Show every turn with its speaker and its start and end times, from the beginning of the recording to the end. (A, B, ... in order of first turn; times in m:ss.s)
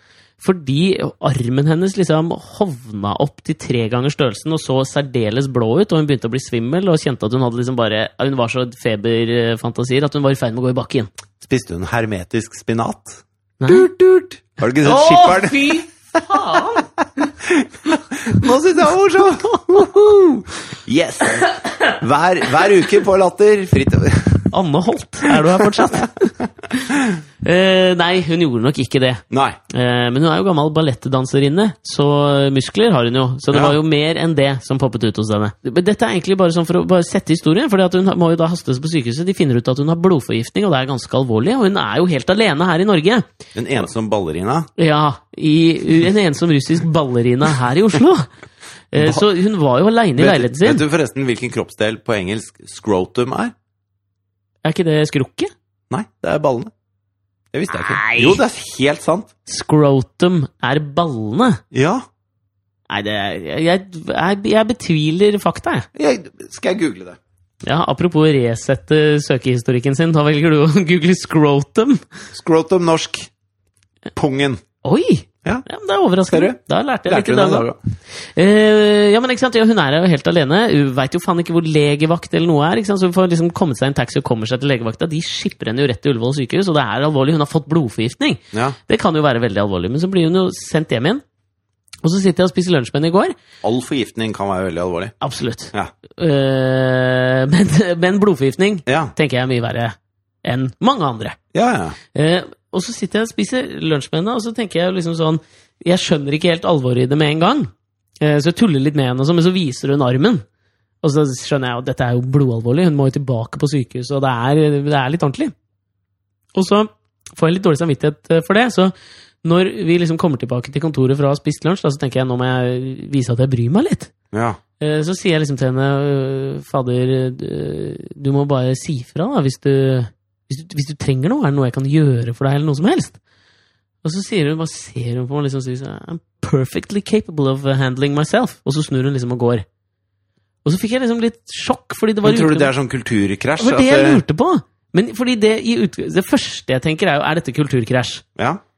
0:00.4-0:11.1 A
0:11.4-0:15.8 B
0:13.6-0:13.9 A
0:14.8-0:16.9 A
0:16.3-0:24.5 B
0:24.5-0:43.2 A
0:25.2-0:27.1 B
0:29.3-0:29.6 B
0:33.5-0:33.8 B
0:43.6-0:44.7 B
0:44.8-0:48.3 A
0:48.9-0:50.8 A
0:49.0-0:49.3 B
0:50.2-0:53.5 B
0:54.6-0:55.5 A
0:55.9-0:56.7 B
0:57.5-0:59.3 B
0:57.7-0:58.4 A
0:59.4-1:01.6 A
1:01.7-1:02.0 B
1:02.9-1:05.9 A
1:05.9-1:07.2 B
1:07.6-1:12.1 A
1:12.3-1:13.3 B
1:14.1-1:14.6 B
1:14.8-1:17.7 A
1:16.3-1:16.6 B
1:17.1-1:17.8 B
1:18.3-1:31.2 A
1:28.5-1:28.8 B
1:32.0-1:33.4 A
1:33.6-1:35.1 B
1:35.2-1:41.4 A
1:38.9-1:39.1 B
1:41.5-1:42.0 B
1:42.1-1:50.4 A
1:51.0-1:55.5 A
1:56.6-2:04.1 A
2:04.3-2:04.6 B
2:04.8-2:13.2 A
2:14.0-2:19.6 A
2:20.6-2:22.7 A
2:22.2-2:24.2 B
2:23.6-2:28.2 A